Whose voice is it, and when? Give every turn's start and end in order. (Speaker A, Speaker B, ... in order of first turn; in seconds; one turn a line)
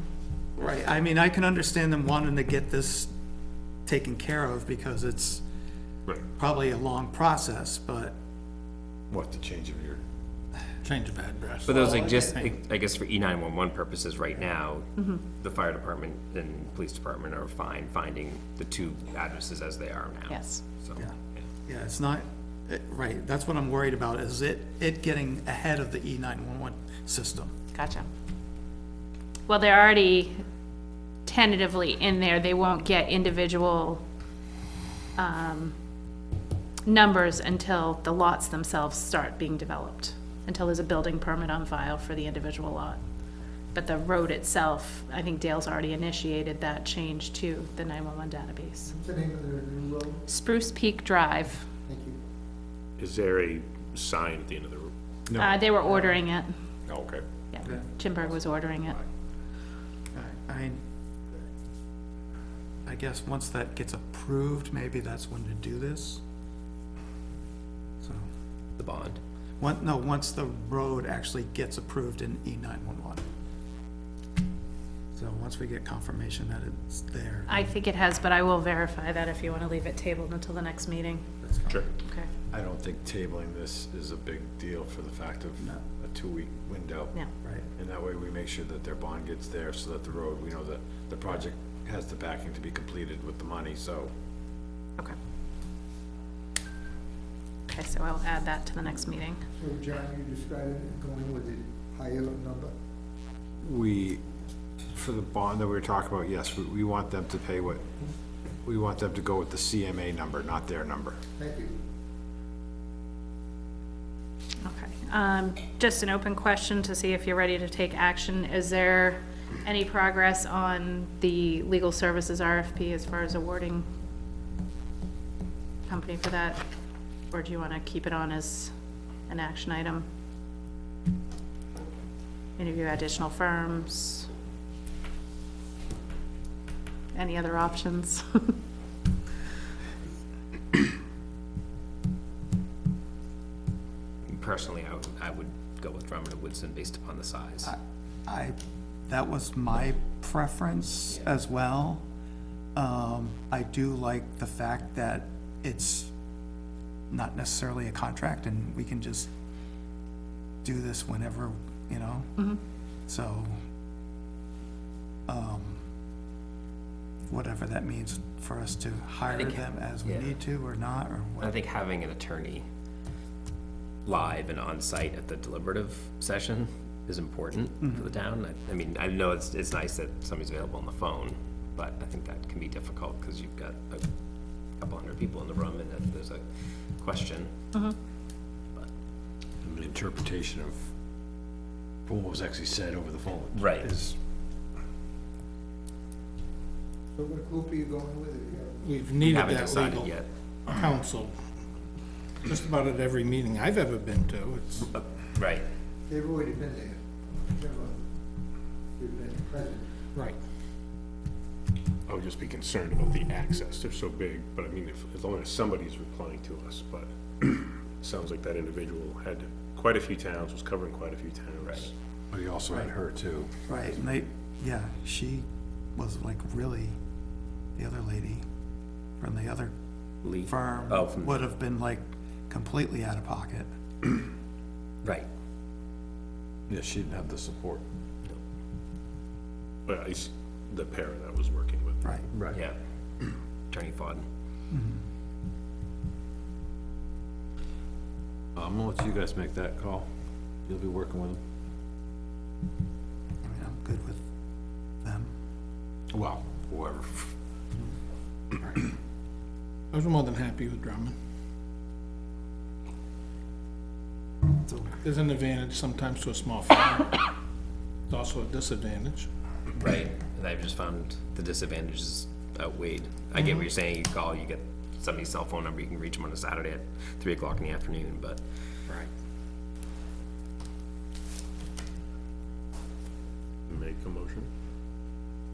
Speaker A: 0.6-3.1
Speaker A: 3.9-5.4
Speaker A: 6.3-8.1
Speaker B: 9.1-10.0
Speaker C: 10.8-12.5
Speaker D: 11.7-21.0
Speaker A: 11.8-12.3
Speaker E: 20.3-20.6
Speaker A: 20.9-27.5
Speaker E: 27.7-28.1
Speaker E: 29.5-30.4
Speaker E: 31.2-34.0
Speaker E: 35.1-35.7
Speaker E: 36.9-43.0
Speaker E: 43.7-48.9
Speaker F: 48.9-50.2
Speaker E: 50.3-51.6
Speaker F: 51.9-52.2
Speaker G: 53.0-54.9
Speaker B: 55.3-55.6
Speaker E: 55.3-56.5
Speaker A: 55.9-56.1
Speaker G: 56.9-57.2
Speaker E: 57.5-59.0
Speaker A: 60.1-60.8
Speaker A: 62.8-66.2
Speaker D: 68.8-69.2
Speaker A: 69.6-73.2
Speaker A: 75.1-77.7
Speaker E: 77.5-81.2
Speaker A: 81.4-81.8
Speaker E: 82.0-82.3
Speaker B: 82.5-87.2
Speaker A: 85.6-85.8
Speaker B: 87.8-94.1
Speaker E: 97.7-99.4
Speaker F: 99.6-102.7
Speaker B: 103.6-104.2
Speaker B: 104.9-107.8
Speaker B: 108.6-111.2
Speaker F: 111.4-111.8
Speaker E: 114.6-123.9
Speaker E: 125.9-126.6
Speaker E: 127.3-128.7
Speaker E: 129.3-130.0
Speaker E: 132.6-134.3
Speaker E: 137.1-138.5
Speaker D: 144.3-147.7
Speaker A: 147.6-148.6
Speaker A: 149.1-152.0
Speaker A: 152.7-156.1
Speaker A: 157.1-159.3
Speaker A: 160.6-162.4
Speaker A: 163.1-163.5
Speaker A: 165.3-165.8
Speaker A: 167.3-171.6
Speaker D: 169.3-170.3
Speaker D: 171.4-172.7
Speaker D: 174.0-184.1
Speaker A: 177.8-178.2
Speaker D: 184.7-187.5
Speaker B: 189.6-190.9
Speaker B: 192.1-194.2
Speaker D: 193.5-193.9
Speaker F: 197.2-198.8
Speaker C: 198.8-201.3
Speaker D: 199.2-200.3
Speaker C: 202.4-204.9
Speaker D: 204.9-205.6
Speaker F: 206.1-208.0
Speaker F: 209.0-209.9
Speaker G: 212.1-221.9
Speaker D: 221.6-221.9
Speaker B: 222.3-223.5
Speaker A: 223.7-227.0
Speaker A: 227.8-228.4
Speaker A: 229.2-229.7
Speaker D: 230.2-231.5
Speaker A: 230.4-233.7
Speaker B: 236.7-237.8
Speaker G: 239.9-242.0
Speaker B: 242.3-242.6
Speaker D: 243.7-244.2
Speaker A: 244.7-245.0
Speaker B: 248.6-250.1
Speaker B: 250.7-251.4
Speaker A: 253.4-254.2
Speaker A: 255.0-255.3
Speaker B: 256.1-257.3
Speaker C: 259.9-261.1
Speaker A: 264.6-264.9
Speaker C: 265.0-267.3
Speaker C: 268.1-269.3
Speaker D: 269.8-278.4
Speaker A: 273.4-273.6
Speaker G: 283.7-284.5